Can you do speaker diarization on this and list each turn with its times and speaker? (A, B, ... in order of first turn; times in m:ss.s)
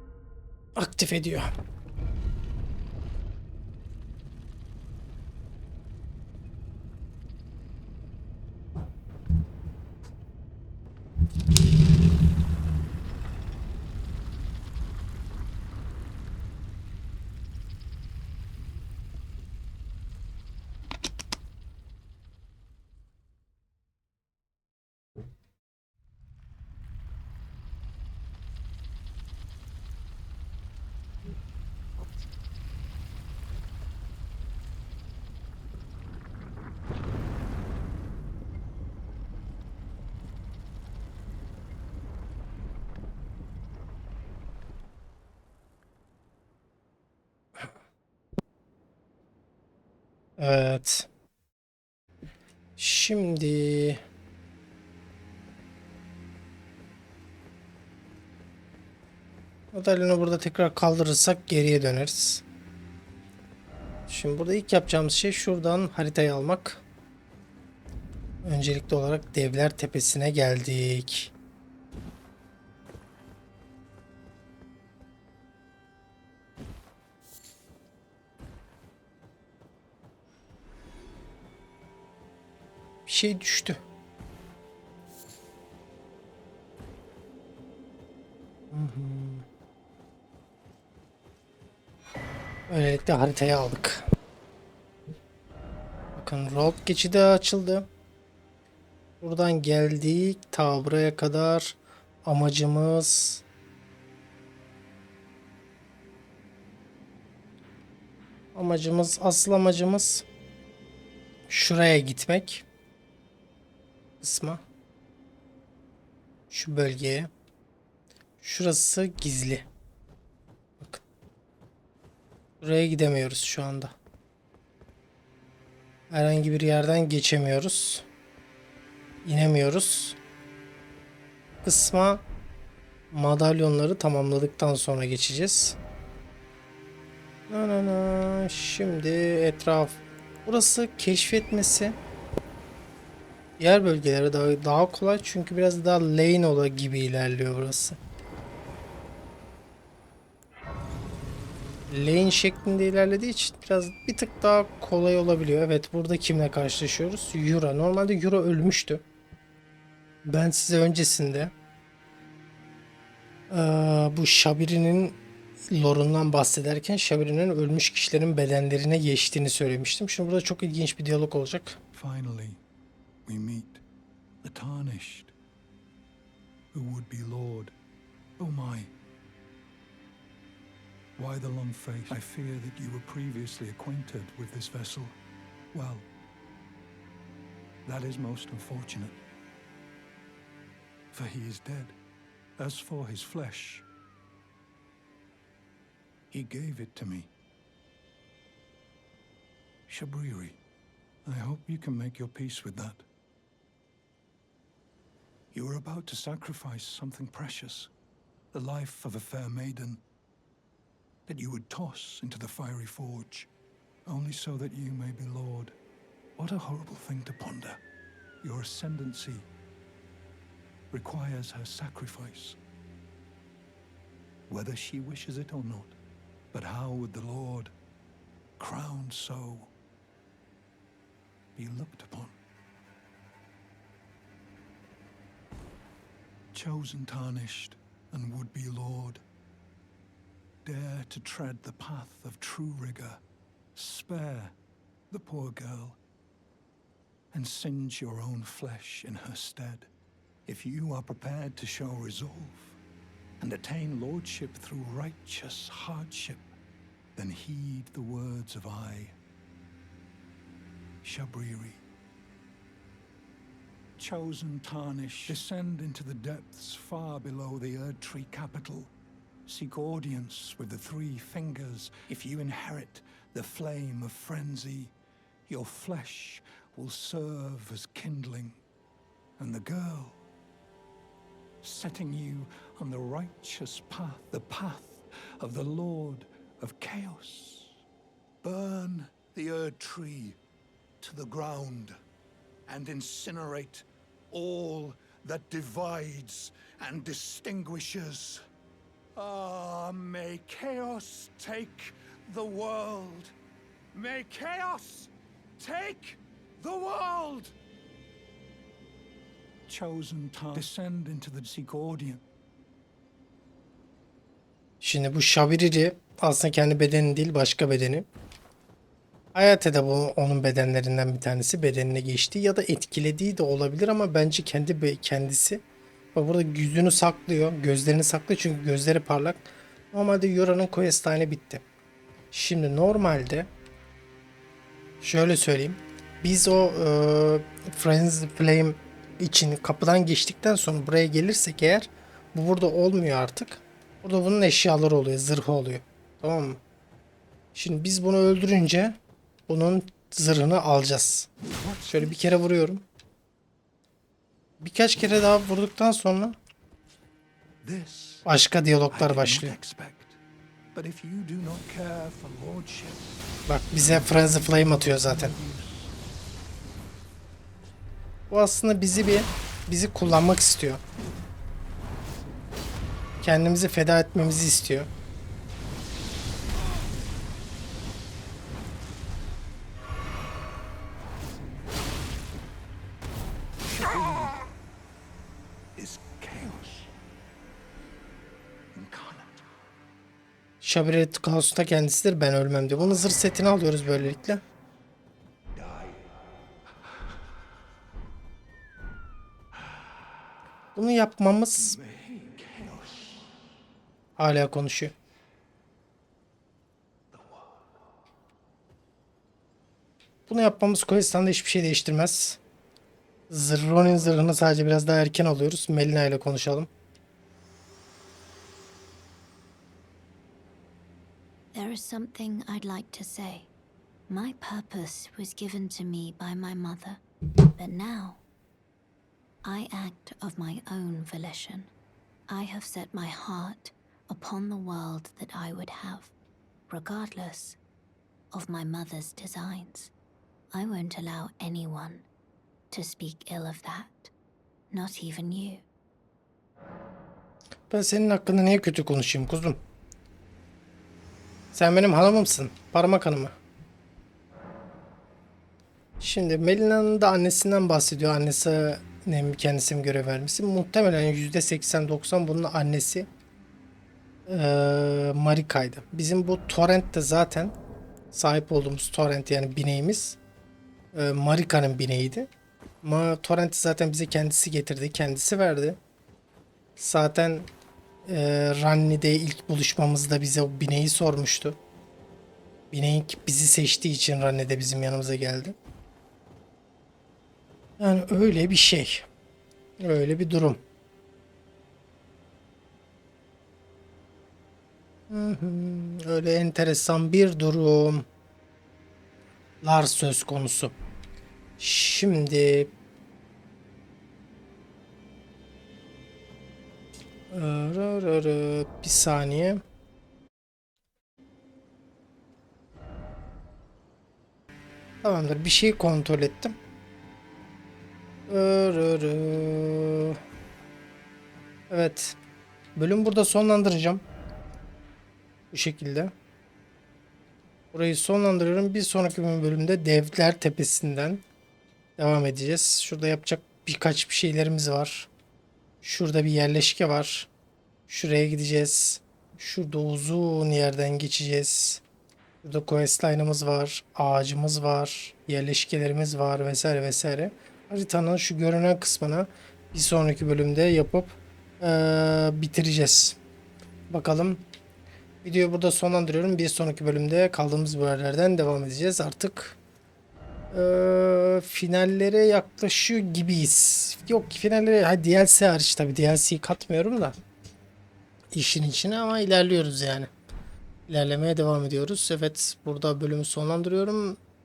0:00.8-0:01.5 A
0:50.4-0:51.1 A
0:52.8-0:54.0 A
0:59.7-1:02.4 A
1:04.1-1:06.8 A
1:08.4-1:11.3 A
1:23.0-1:23.8 A
1:28.7-1:29.4 A
1:32.7-1:34.0 A
1:36.2-1:37.9 A
1:39.2-1:43.4 A
1:48.5-1:50.2 A
1:51.5-1:52.6 A
1:54.2-1:54.6 A
1:56.5-1:57.3 A
1:58.4-1:59.6 A
2:02.6-2:03.9 A
2:06.1-2:08.0 A
2:09.2-2:10.2 A
2:11.6-2:12.2 A
2:13.1-2:15.8 A
2:17.5-2:22.0 A
2:23.6-2:28.0 A
2:31.9-2:39.0 A
2:40.2-2:41.5 A
2:43.5-2:45.2 A
2:45.7-2:51.8 A
2:51.9-2:52.6 B
2:53.2-2:53.8 B
2:54.4-2:55.3 B
2:56.7-2:57.7 B
2:58.4-2:58.9 B
3:01.2-3:05.2 B
3:05.7-3:06.1 B
3:07.8-3:09.2 B
3:11.1-3:12.0 B
3:12.6-3:13.8 B
3:16.3-3:17.3 B
3:19.9-3:20.6 B
3:21.2-3:23.0 B
3:25.5-3:27.9 B
3:28.5-3:30.0 B
3:31.3-3:33.5 B
3:34.0-3:35.8 B
3:36.4-3:37.8 B
3:38.4-3:39.5 B
3:40.9-3:42.6 B
3:44.5-3:46.0 B
3:46.5-3:47.7 B
3:48.6-3:49.7 B
3:51.5-3:52.3 B
3:56.5-3:59.2 B
4:00.6-4:03.2 B
4:03.7-4:04.5 B
4:05.1-4:06.0 B
4:07.3-4:09.9 B
4:10.4-4:12.8 B
4:13.4-4:16.5 B
4:17.2-4:19.2 B
4:21.0-4:21.8 B
4:24.0-4:28.9 B
4:29.4-4:34.9 B
4:35.5-4:38.6 B
4:39.4-4:40.2 B
4:41.6-4:47.8 B
4:48.4-4:50.4 B
4:51.0-4:52.0 B
4:52.7-4:58.4 B
4:59.1-5:03.3 B
5:03.9-5:07.6 B
5:09.7-5:12.2 B
5:14.8-5:18.1 A
5:19.3-5:25.6 A
5:26.1-5:31.6 A
5:32.3-5:33.5 A
5:35.0-5:46.6 A
5:47.5-5:49.0 A
5:49.5-5:51.3 A
5:51.5-5:52.4 B
5:51.9-5:52.8 A
5:54.6-5:56.4 A
5:57.6-5:58.2 B
5:58.2-5:59.5 A
5:58.9-6:00.2 B
6:00.7-6:03.1 B
6:03.5-6:05.3 A
6:03.7-6:05.9 B
6:08.3-6:10.8 A
6:13.2-6:14.9 A
6:23.7-6:24.4 B
6:25.8-6:26.9 B
6:28.7-6:29.4 B
6:30.6-6:34.4 A
6:35.6-6:36.1 B
6:40.7-6:41.8 A
6:41.6-6:43.3 B
6:44.2-6:44.9 A
6:47.1-6:47.6 B
6:50.3-6:52.4 A
6:53.3-6:56.7 A
7:01.5-7:03.5 C
7:04.1-7:07.0 C
7:07.5-7:08.2 C
7:09.4-7:11.7 C
7:12.3-7:16.1 C
7:16.7-7:17.6 C
7:18.3-7:19.9 C
7:20.5-7:22.0 C
7:22.7-7:24.1 C
7:24.7-7:25.6 C
7:27.7-7:29.6 A
7:31.5-7:33.3 A
7:36.0-7:43.1 A
7:44.3-7:47.5 A
7:48.1-7:50.2 A
7:50.9-7:52.3 A
7:52.8-7:55.8 A
7:56.8-7:57.5 A
7:58.0-8:01.6 A
8:02.7-8:05.6 A
8:07.8-8:09.0 A
8:09.8-8:10.6 A
8:15.1-8:18.0 A
8:19.6-8:20.7 A
8:21.6-8:22.7 A
8:27.3-8:29.6 A
8:35.0-8:36.6 A
8:38.3-8:40.2 A
8:41.7-8:42.2 A
8:42.8-8:44.0 A
8:45.5-8:46.1 A
8:47.7-8:51.2 A
8:52.0-8:55.1 A
8:55.8-8:57.3 A
8:57.9-9:01.8 A
9:02.4-9:13.2 A
9:13.9-9:14.4 A
9:15.2-9:19.6 A
9:20.5-9:27.1 A
9:28.3-9:30.1 A
9:30.9-9:34.2 A